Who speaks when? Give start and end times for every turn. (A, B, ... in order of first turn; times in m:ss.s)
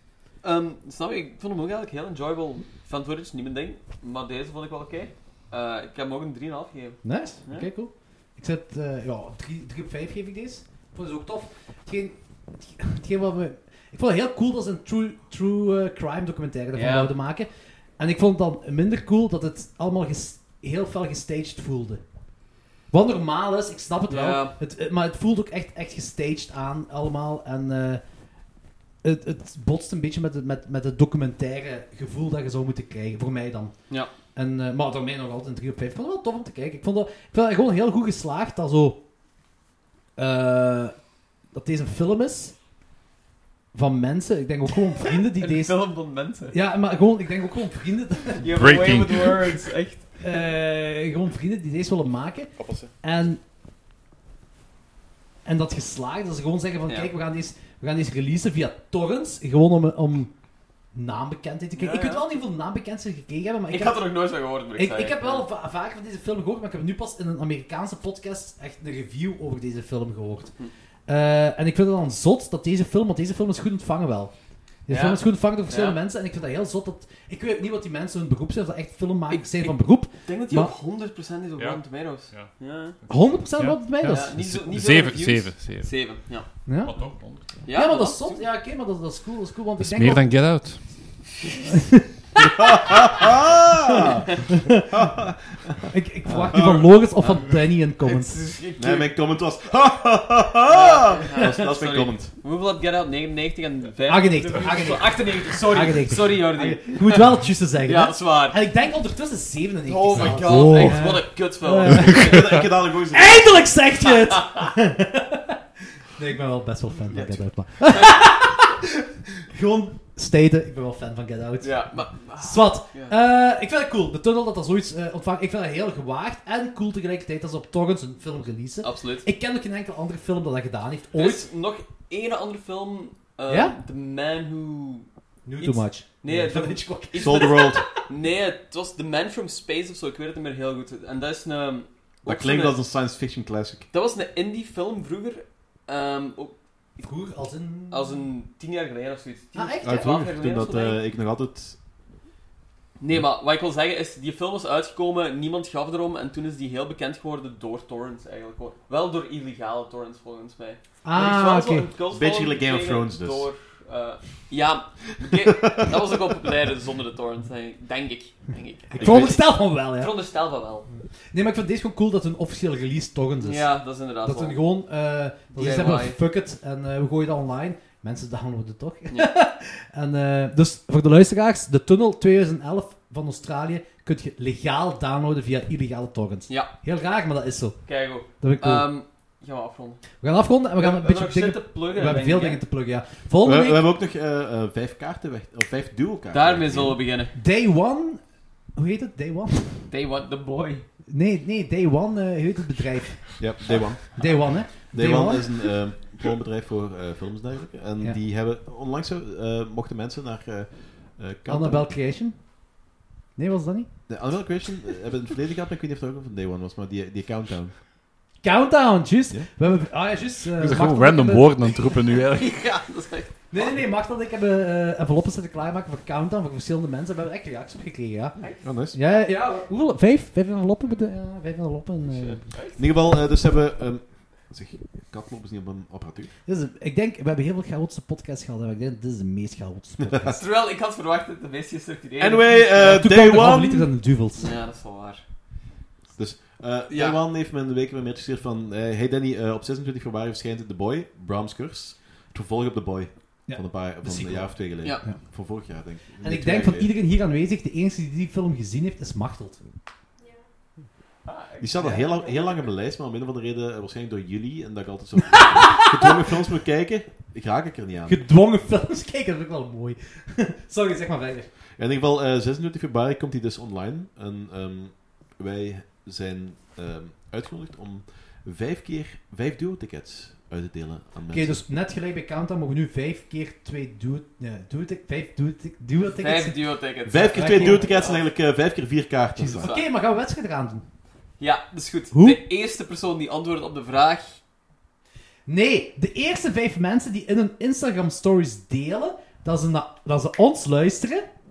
0:00.4-0:07.7 A
0:07.0-0:22.0 B
0:16.7-0:17.1 A
0:22.9-0:28.0 B
0:24.1-0:24.5 A
0:29.0-0:33.8 B
0:34.3-0:39.0 B
0:40.2-0:41.0 B
0:41.5-0:42.6 B
0:43.7-0:45.8 B
0:45.1-0:46.6 A
0:46.5-0:48.5 B
0:48.4-0:50.2 A
0:48.5-0:49.6 C
0:50.2-0:53.4 B
0:52.6-0:52.9 A
0:55.4-1:00.3 B
1:00.9-1:04.1 B
1:01.8-1:02.3 A
1:03.7-1:05.4 A
1:04.7-1:10.5 B
1:11.1-1:14.3 B
1:14.9-1:20.7 B
1:14.9-1:16.0 A
1:19.3-1:23.0 A
1:21.6-1:25.9 C
1:23.1-1:24.3 B
1:24.1-1:26.5 A
1:26.6-1:26.9 B
1:26.8-1:27.6 C
1:27.6-1:28.4 A
1:27.7-1:30.2 B
1:29.8-1:30.8 C
1:31.4-1:31.7 A
1:31.7-1:32.4 B
1:32.4-1:36.9 D
1:34.5-1:34.8 B
1:35.9-1:38.4 B
1:38.0-1:39.1 A
1:38.8-1:42.3 D
1:40.6-1:48.6 A
1:44.1-2:11.4 B
1:49.8-1:52.4 A
1:50.1-1:50.9 D
1:51.8-1:53.6 D
1:54.0-1:54.6 A
1:57.1-1:57.4 D
2:01.6-2:03.2 A
2:08.8-2:09.3 A
2:11.1-2:15.1 A
2:13.5-2:13.8 B
2:15.4-2:18.0 B
2:15.6-2:22.8 A
2:17.2-2:17.9 D
2:22.2-2:23.8 D
2:23.9-2:27.0 A
2:27.0-2:28.2 B
2:27.9-2:31.0 A
2:29.5-2:30.0 B
2:29.8-2:31.8 D
2:33.0-2:50.9 A
2:41.0-2:41.9 B
2:42.1-2:43.5 D
2:45.2-2:46.5 D
2:48.9-2:50.2 B
2:49.0-2:49.4 D
2:51.0-3:08.9 B
2:53.4-2:54.6 A
2:55.5-2:56.2 A
3:07.8-3:10.0 A
3:10.2-3:13.9 B
3:10.8-3:12.6 A
3:13.4-3:17.0 D
3:16.3-3:17.3 A
3:17.3-3:18.2 B
3:18.7-3:19.9 B
3:19.9-3:20.8 A
3:21.1-3:23.4 B
3:23.4-3:31.9 D
3:24.1-3:25.6 B
3:31.5-3:32.5 B
3:33.4-3:33.9 B
3:34.1-3:37.8 D
3:38.4-3:41.8 B
3:40.6-3:42.6 C
3:42.1-3:43.3 A
3:43.5-3:52.4 B
3:48.4-3:48.6 A
3:48.6-3:49.0 D
3:52.2-3:52.8 A
3:52.8-3:56.3 D
3:56.4-4:00.4 B
4:00.0-4:00.3 D
4:00.3-4:02.8 A
4:02.2-4:03.9 D
4:02.7-4:04.5 B
4:04.4-4:05.2 A
4:06.2-4:16.9 D
4:06.9-4:07.2 A
4:13.4-4:15.2 B
4:16.2-4:19.6 B
4:21.2-4:22.6 A
4:21.6-4:28.2 D
4:21.8-4:22.0 B
4:28.0-4:31.5 B
4:31.8-4:41.6 D
4:41.3-4:46.7 B
4:46.1-4:48.3 A
4:47.0-4:49.7 D
4:47.3-4:47.8 B
4:49.4-4:50.8 B
4:49.5-4:49.9 A
4:51.4-4:54.4 A
4:52.1-4:52.4 B
4:55.4-5:01.3 B